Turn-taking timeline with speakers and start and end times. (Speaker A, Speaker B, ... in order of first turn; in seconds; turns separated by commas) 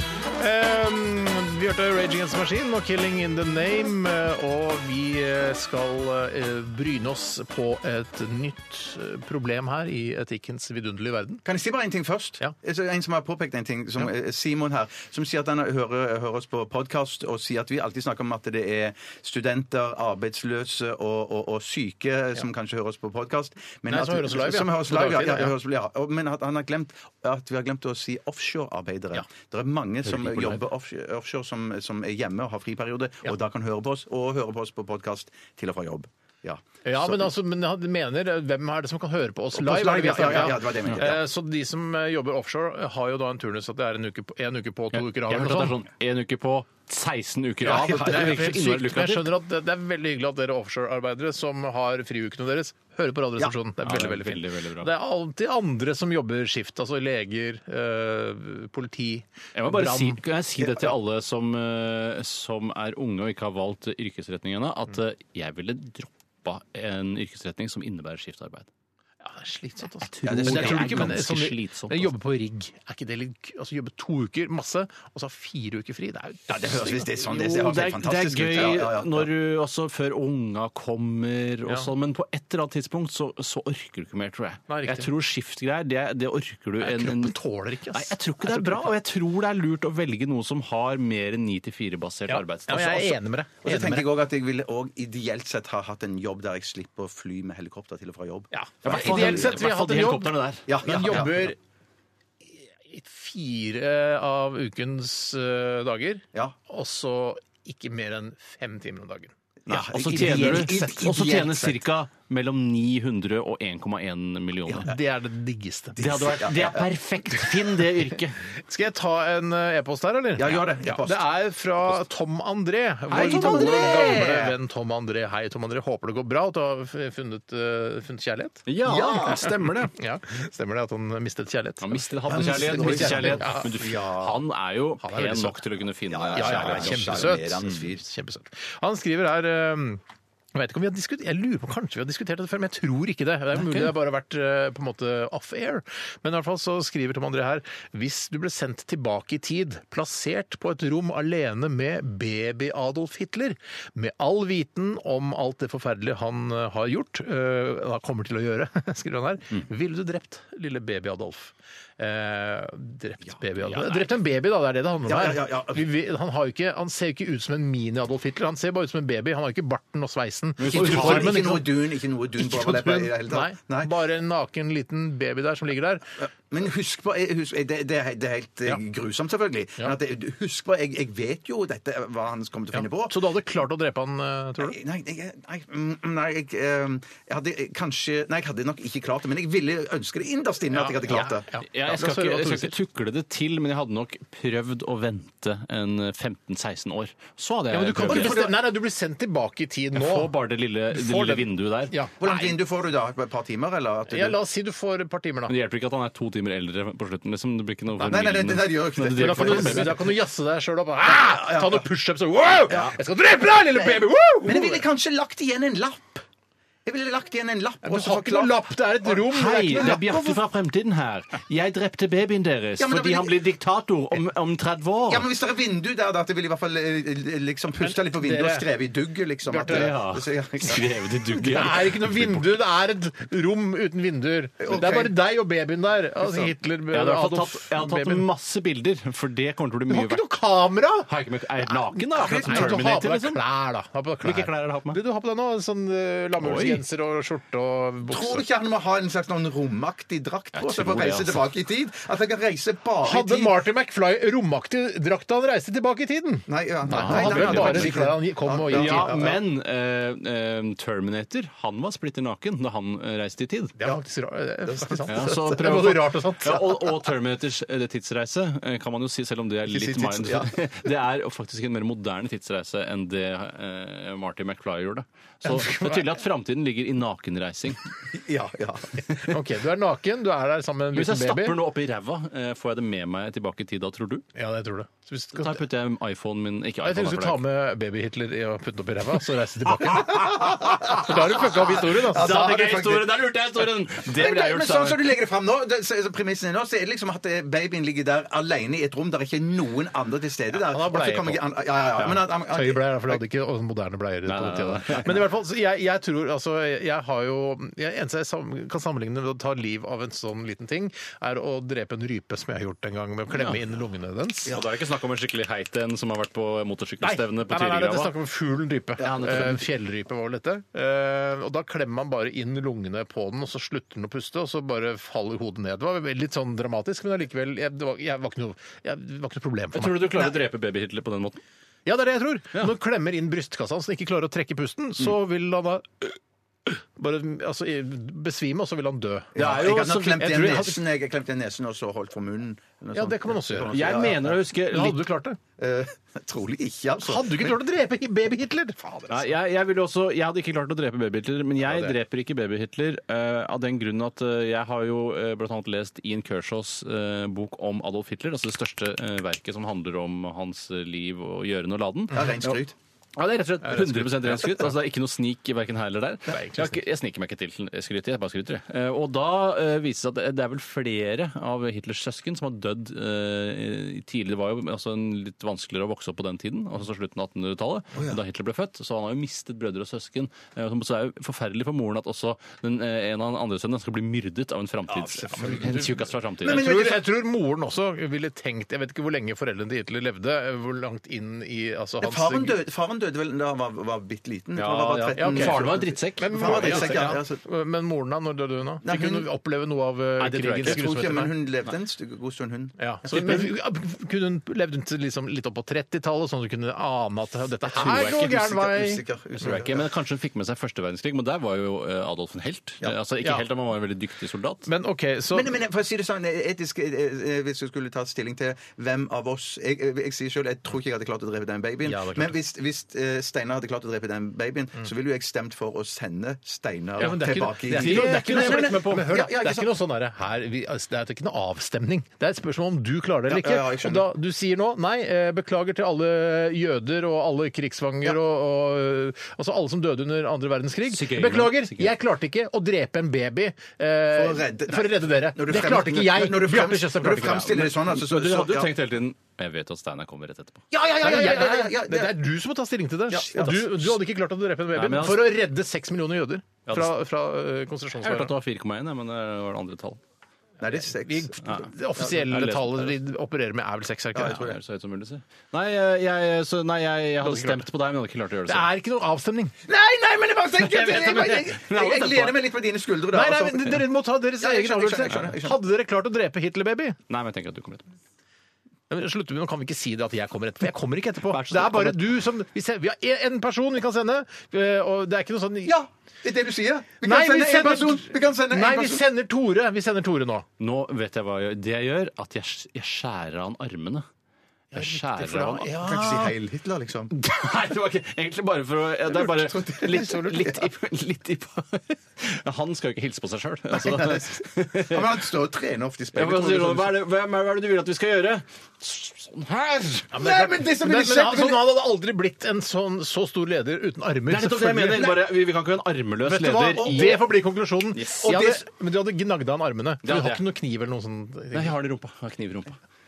Speaker A: 0.4-11.4, Speaker B: 11.4-37.3, Speaker A: 23.9-25.5, Speaker C: 30.1-30.6, Speaker A: 36.9-45.8, Speaker B: 39.5-41.2, Speaker C: 44.9-49.3, Speaker A: 47.6-60.2, Speaker B: 47.7-48.4, Speaker C: 53.8-54.9, Speaker C: 59.5-68.7, Speaker B: 60.6-60.9, Speaker A: 69.2-77.1, Speaker C: 70.0-72.1, Speaker B: 70.2-71.2, Speaker B: 76.5-79.3, Speaker C: 77.2-87.4, Speaker A: 84.7-85.1, Speaker A: 86.8-88.9, Speaker C: 87.9-93.2, Speaker A: 92.3-94.1, Speaker B: 93.6-99.6, Speaker A: 98.5-101.6, Speaker C: 98.8-101.2, Speaker B: 100.7-101.5, Speaker A: 102.5-109.3, Speaker B: 109.7-111.8, Speaker C: 109.7-114.9, Speaker A: 109.9-111.1, Speaker A: 114.8-116.0, Speaker B: 116.0-116.9, Speaker C: 116.0-118.4, Speaker A: 118.7-128.7, Speaker B: 120.4-121.3, Speaker C: 123.1-124.3, Speaker B: 123.1-124.5, Speaker C: 128.7-129.9, Speaker B: 128.8-129.5, Speaker A: 129.4-133.7, Speaker C: 131.8-137.4, Speaker B: 132.3-134.4, Speaker A: 135.0-135.6, Speaker B: 136.1-138.0, Speaker A: 136.3-140.0, Speaker A: 140.5-176.1, Speaker C: 143.6-143.9, Speaker B: 165.1-165.9, Speaker C: 170.6-171.4, Speaker B: 170.7-173.9, Speaker B: 176.2-183.2, Speaker A: 182.7-184.8, Speaker B: 184.6-191.5, Speaker A: 190.7-192.8, Speaker C: 191.7-198.4, Speaker A: 197.7-200.3, Speaker B: 198.0-198.6, Speaker C: 199.9-201.9, Speaker A: 200.9-202.5, Speaker B: 202.2-204.4, Speaker A: 204.1-205.5, Speaker C: 205.5-209.9, Speaker B: 208.0-210.1, Speaker A: 209.1-214.8, Speaker B: 211.2-211.8, Speaker B: 214.4-216.2, Speaker B: 216.9-219.2, Speaker A: 217.8-220.4, Speaker C: 219.3-225.3, Speaker B: 222.8-223.4, Speaker B: 225.1-230.9, Speaker A: 227.8-228.7, Speaker A: 229.5-229.9, Speaker C: 229.7-232.4, Speaker A: 231.4-238.3, Speaker B: 234.6-235.1, Speaker C: 236.9-240.2, Speaker A: 239.9-248.4, Speaker C: 241.1-243.4, Speaker B: 242.2-242.8, Speaker C: 244.2-245.0, Speaker C: 246.4-246.8, Speaker B: 248.1-253.6, Speaker C: 250.6-251.4, Speaker A: 253.0-259.3, Speaker B: 256.5-259.4, Speaker C: 256.9-258.0, Speaker C: 258.7-263.8, Speaker A: 263.8-266.8, Speaker B: 264.7-265.7, Speaker C: 265.1-277.8, Speaker B: 269.7-270.6, Speaker A: 275.4-276.2, Speaker B: 278.1-279.1, Speaker A: 279.3-281.6, Speaker C: 280.9-284.3, Speaker A: 284.4-285.6, Speaker C: 285.4-287.4, Speaker A: 286.8-292.5, Speaker B: 290.2-293.4, Speaker C: 292.1-295.0, Speaker B: 293.9-303.2, Speaker A: 300.5-301.4, Speaker A: 302.1-314.5, Speaker C: 304.3-305.1, Speaker C: 313.3-313.6, Speaker C: 314.5-318.1, Speaker A: 317.0-330.3, Speaker C: 319.0-319.6, Speaker C: 329.7-331.4, Speaker A: 331.9-340.8, Speaker B: 339.4-344.4, Speaker C: 339.4-340.6, Speaker A: 342.9-345.4, Speaker C: 343.7-345.0, Speaker B: 345.6-347.6, Speaker A: 347.0-349.2, Speaker C: 349.1-362.6, Speaker A: 351.6-351.9, Speaker B: 362.1-362.7, Speaker C: 363.2-386.6, Speaker A: 363.6-364.7, Speaker A: 366.3-366.8, Speaker B: 384.9-385.9, Speaker A: 385.4-385.8, Speaker A: 386.4-392.6, Speaker B: 386.4-387.1, Speaker B: 392.0-397.4, Speaker C: 394.6-397.1, Speaker A: 395.1-401.3, Speaker B: 398.8-399.3, Speaker C: 400.2-400.8, Speaker B: 400.6-403.5, Speaker A: 402.8-409.0, Speaker C: 407.7-408.5, Speaker B: 407.9-409.9, Speaker C: 409.4-414.7, Speaker A: 414.7-415.6, Speaker B: 415.3-429.7, Speaker A: 421.8-422.4, Speaker A: 427.0-447.7, Speaker C: 427.7-429.1, Speaker B: 433.3-434.1, Speaker C: 440.9-441.9, Speaker B: 444.1-448.7, Speaker C: 447.4-450.6, Speaker A: 450.7-458.3, Speaker B: 451.0-452.2, Speaker B: 453.1-453.9, Speaker C: 454.8-455.3, Speaker C: 456.7-456.9, Speaker C: 458.0-460.0, Speaker B: 460.6-461.4, Speaker A: 460.6-464.5, Speaker C: 461.4-462.9, Speaker B: 464.1-464.6, Speaker C: 464.4-468.7, Speaker A: 467.2-467.7, Speaker A: 468.5-469.6, Speaker B: 469.7-473.9, Speaker C: 470.7-472.4, Speaker A: 473.1-477.0, Speaker B: 474.4-475.6, Speaker C: 477.1-477.9, Speaker A: 478.9-485.8, Speaker C: 481.3-482.0, Speaker B: 485.6-489.1, Speaker A: 487.0-490.5, Speaker C: 490.6-494.1, Speaker A: 494.7-496.4, Speaker C: 494.7-495.7, Speaker B: 495.8-497.1, Speaker C: 497.1-505.0, Speaker B: 499.4-500.6, Speaker A: 499.9-500.5, Speaker B: 503.7-507.0, Speaker C: 506.1-510.1, Speaker A: 510.1-515.1, Speaker B: 510.1-511.7, Speaker C: 514.3-517.2, Speaker B: 514.9-515.3, Speaker A: 516.2-521.8, Speaker B: 516.7-517.2, Speaker C: 518.0-518.3, Speaker B: 518.2-518.6, Speaker C: 520.0-520.4, Speaker C: 521.5-522.8